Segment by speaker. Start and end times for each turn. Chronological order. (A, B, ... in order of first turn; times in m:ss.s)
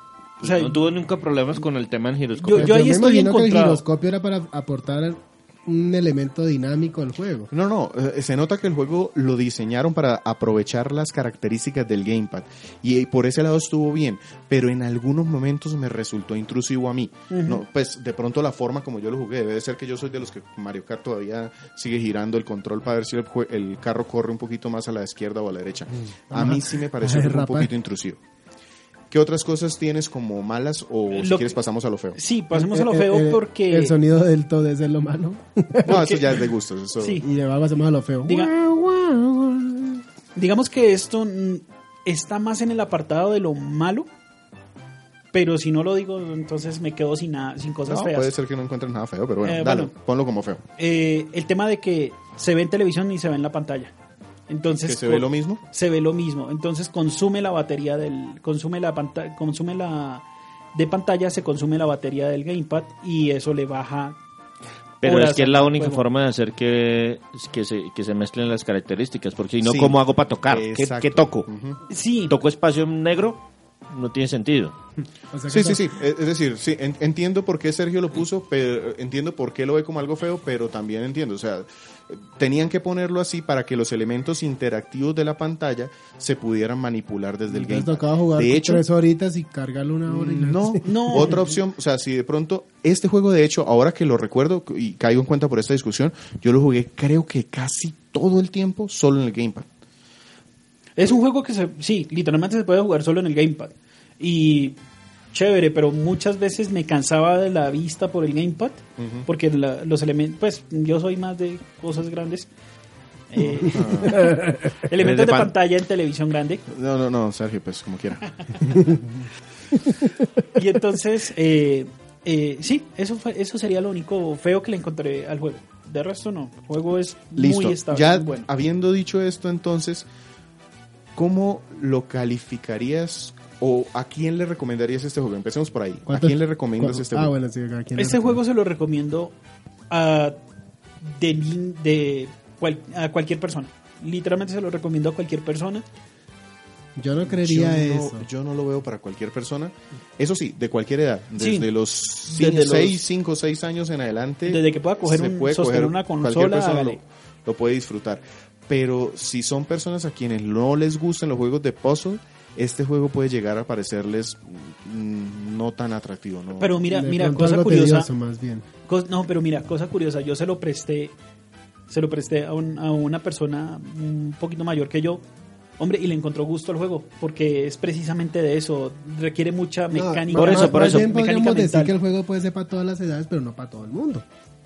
0:00.4-0:02.8 A
0:00.4-0:00.8 B
0:02.4-0:03.8 B
0:02.5-0:07.5 C
0:07.5-0:28.2 D
0:17.3-0:17.6 B
0:26.3-0:27.7 C
0:29.1-0:32.2 D
0:31.1-0:31.6 B
0:32.1-0:33.9 B
0:32.5-0:36.2 C
0:35.8-0:37.2 D
0:35.8-0:36.3 B
0:37.0-0:37.2 B
0:37.2-0:40.0 C
0:38.3-0:38.5 B
0:40.4-0:44.1 B
0:45.3-0:48.3 B
0:47.9-0:50.6 D
0:49.4-0:49.9 B
0:50.8-0:53.9 B
0:54.5-1:04.2 B
0:54.8-0:55.6 D
1:05.0-1:11.5 A
1:05.0-1:06.0 B
1:09.6-1:11.8 D
1:11.9-1:12.3 B
1:12.3-1:14.8 A
1:15.3-1:15.9 C
1:15.5-1:28.8 D
1:27.5-1:31.4 C
1:30.1-1:39.7 D
1:30.8-1:31.6 B
1:41.0-1:44.8 B
1:45.3-1:52.5 B
1:49.0-1:49.2 D
1:53.3-1:56.6 B
1:53.4-1:54.3 D
1:54.2-1:54.5 C
1:54.9-1:55.5 A
1:56.7-1:58.9 D
2:00.5-2:08.5 B
2:07.4-2:10.0 D
2:11.1-2:17.3 D
2:16.1-2:18.4 C
2:18.0-2:19.3 B
2:19.9-2:20.4 B
2:21.0-2:25.8 B
2:27.0-2:28.3 C
2:27.2-2:46.8 D
2:31.4-2:31.7 B
2:32.3-2:33.0 B
2:34.4-2:37.0 B
2:46.6-2:48.1 B
2:46.9-2:48.6 C
2:48.9-2:51.2 B
2:51.9-2:55.2 B
2:55.8-3:01.9 B
2:59.9-3:04.2 C
3:00.3-3:01.1 A